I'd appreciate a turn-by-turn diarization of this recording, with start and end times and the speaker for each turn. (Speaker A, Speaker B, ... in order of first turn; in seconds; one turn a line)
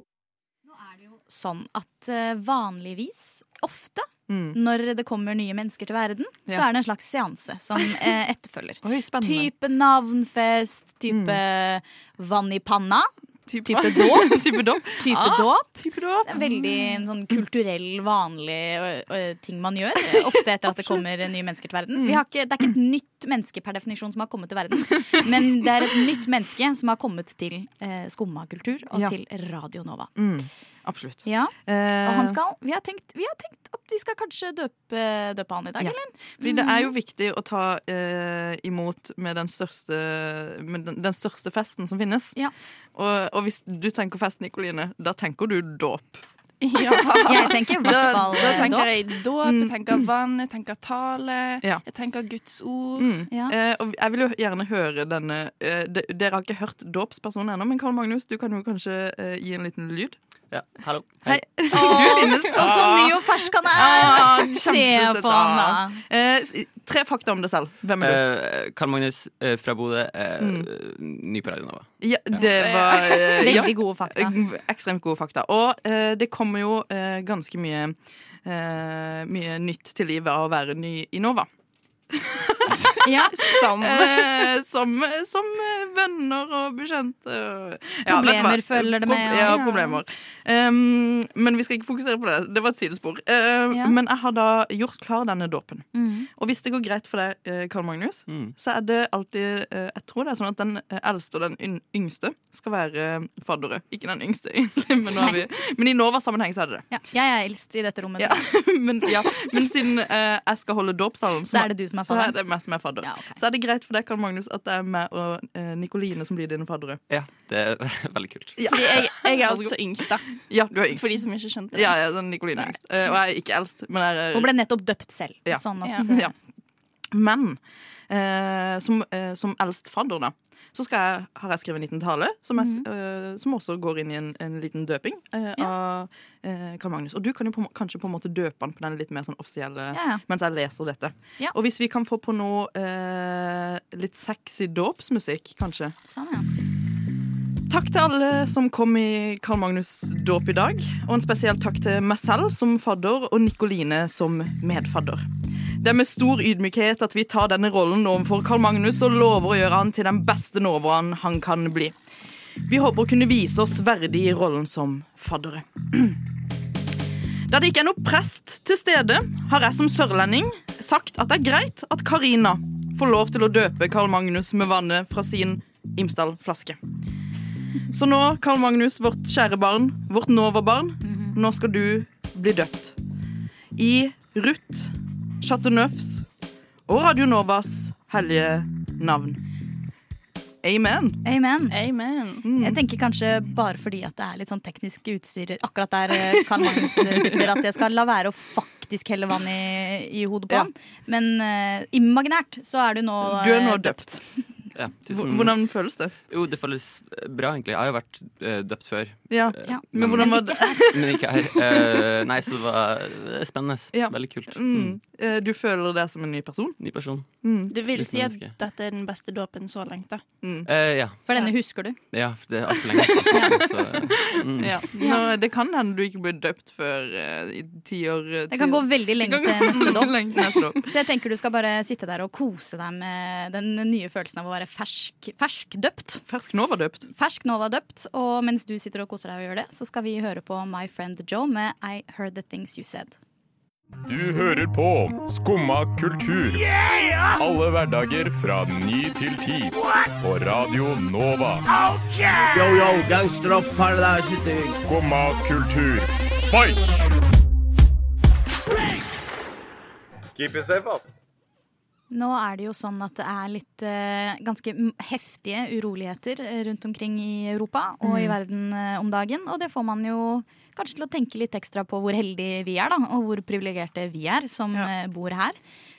Speaker A: 0.9-13.1
Speaker B: 4.3-4.6
Speaker B: 8.8-9.5
Speaker B: 11.1-11.4
Speaker B: 13.5-16.7
Speaker A: 13.6-30.1
Speaker B: 20.7-21.0
Speaker B: 21.9-22.2
Speaker B: 30.2-32.4
Speaker A: 31.2-36.9
Speaker B: 35.8-42.4
Speaker B: 43.0-46.2
Speaker C: 46.6-53.1
Speaker B: 46.9-48.9
Speaker A: 47.3-48.9
Speaker B: 49.4-50.1
Speaker B: 53.0-60.2
Speaker D: 60.5-61.6
Speaker B: 61.3-68.2
Speaker A: 61.7-66.0
Speaker D: 68.0-71.9
Speaker B: 70.4-70.7
Speaker B: 72.0-81.5
Speaker C: 72.4-73.7
Speaker A: 73.4-74.4
Speaker B: 82.1-106.9
Speaker C: 82.6-84.5
Speaker A: 83.0-83.3
Speaker A: 88.1-89.7
Speaker C: 89.4-90.0
Speaker A: 95.9-96.3
Speaker D: 98.3-98.5
Speaker A: 106.9-108.5
Speaker B: 108.2-117.0
Speaker A: 111.5-112.4
Speaker A: 113.0-113.4
Speaker D: 117.1-118.7
Speaker B: 118.6-119.8
Speaker C: 118.7-122.8
Speaker B: 120.3-121.2
Speaker B: 121.7-124.5
Speaker A: 124.3-126.3
Speaker B: 125.5-126.3
Speaker B: 127.1-145.9
Speaker A: 132.6-132.8
Speaker A: 139.9-140.2
Speaker A: 146.1-146.5
Speaker B: 147.7-155.3
Speaker B: 155.8-161.9
Speaker B: 162.7-166.2
Speaker B: 167.5-176.8
Speaker B: 177.9-183.0
Speaker A: 181.1-181.3
Speaker B: 183.8-186.3
Speaker B: 186.9-189.4
Speaker B: 190.6-191.2
Speaker A: 191.2-191.8
Speaker C: 191.7-192.4
Speaker B: 192.4-192.8
Speaker A: 192.5-204.4
Speaker B: 196.5-197.5
Speaker B: 203.2-204.2
Speaker D: 204.8-215.0
Speaker B: 205.1-206.1
Speaker B: 209.3-211.4
Speaker A: 209.7-210.8
Speaker B: 213.9-217.8
Speaker D: 216.8-218.6
Speaker C: 217.7-220.3
Speaker B: 220.4-220.7
Speaker D: 220.7-224.8
Speaker A: 221.3-222.0
Speaker B: 223.3-230.9
Speaker A: 225.0-225.3
Speaker A: 228.5-236.2
Speaker B: 236.3-237.1
Speaker A: 237.1-243.2
Speaker E: 244.1-246.7
Speaker E: 247.4-251.7
Speaker F: 252.5-254.8
Speaker E: 254.7-256.9
Speaker A: 262.1-275.6
Speaker B: 268.0-268.4